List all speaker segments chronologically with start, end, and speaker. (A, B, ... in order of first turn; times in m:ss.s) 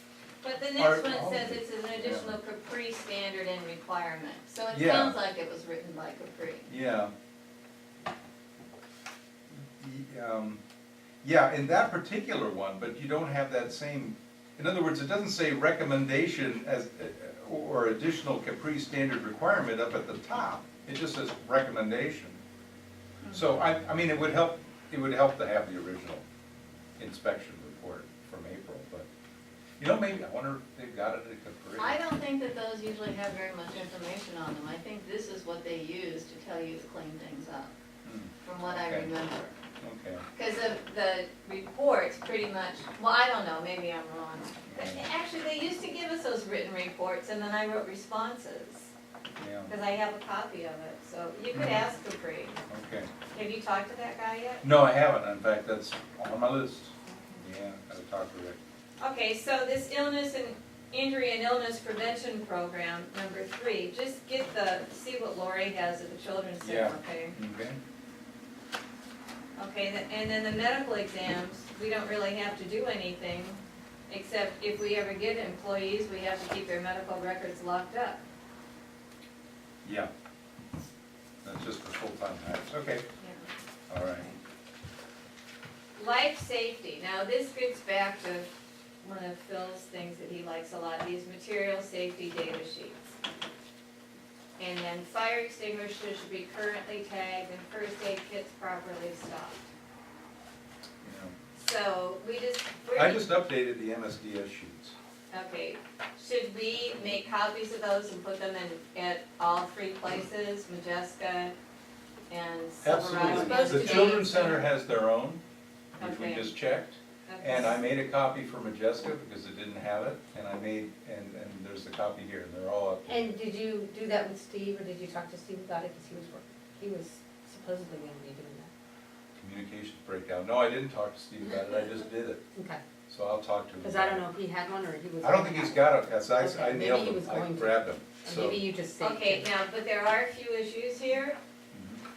0:00.4-0:06.7 A
0:00.8-0:02.4 B
0:04.7-0:05.2 B
0:06.7-0:07.1 B
0:09.6-0:10.6 B
0:11.2-0:22.4 B
0:23.2-0:23.5 A
0:23.3-0:26.2 B
0:27.0-0:29.1 B
0:29.8-0:32.0 B
0:31.8-0:37.7 A
0:38.0-0:39.1 B
0:38.4-0:39.5 A
0:39.8-0:40.2 B
0:40.3-0:48.9 A
0:44.7-0:45.0 B
0:49.4-0:49.7 B
0:49.7-0:52.6 A
0:51.5-0:51.8 B
0:52.7-0:53.1 B
0:53.3-0:54.6 A
0:54.6-0:58.6 B
0:57.0-0:57.4 A
0:59.0-1:07.4 A
1:06.6-1:07.8 B
1:09.6-1:18.2 A
1:19.8-1:20.1 B
1:21.4-1:23.0 B
1:23.2-1:23.5 A
1:23.9-1:24.3 B
1:25.9-1:33.2 A
1:34.6-1:39.7 A
1:41.0-1:41.3 B
1:41.6-1:43.3 A
1:42.9-1:44.9 B
1:45.3-1:51.6 A
1:46.8-1:47.2 B
1:52.3-1:54.6 A
1:52.8-1:55.4 B
1:53.1-1:54.6 C
1:56.0-1:56.5 A
1:56.0-2:03.4 B
1:57.3-1:57.8 A
2:03.0-2:08.7 C
2:09.4-2:12.4 B
2:12.5-2:12.8 C
2:13.1-2:14.2 B
2:13.8-2:19.5 C
2:15.2-2:18.6 B
2:19.0-2:21.4 A
2:21.7-2:22.0 B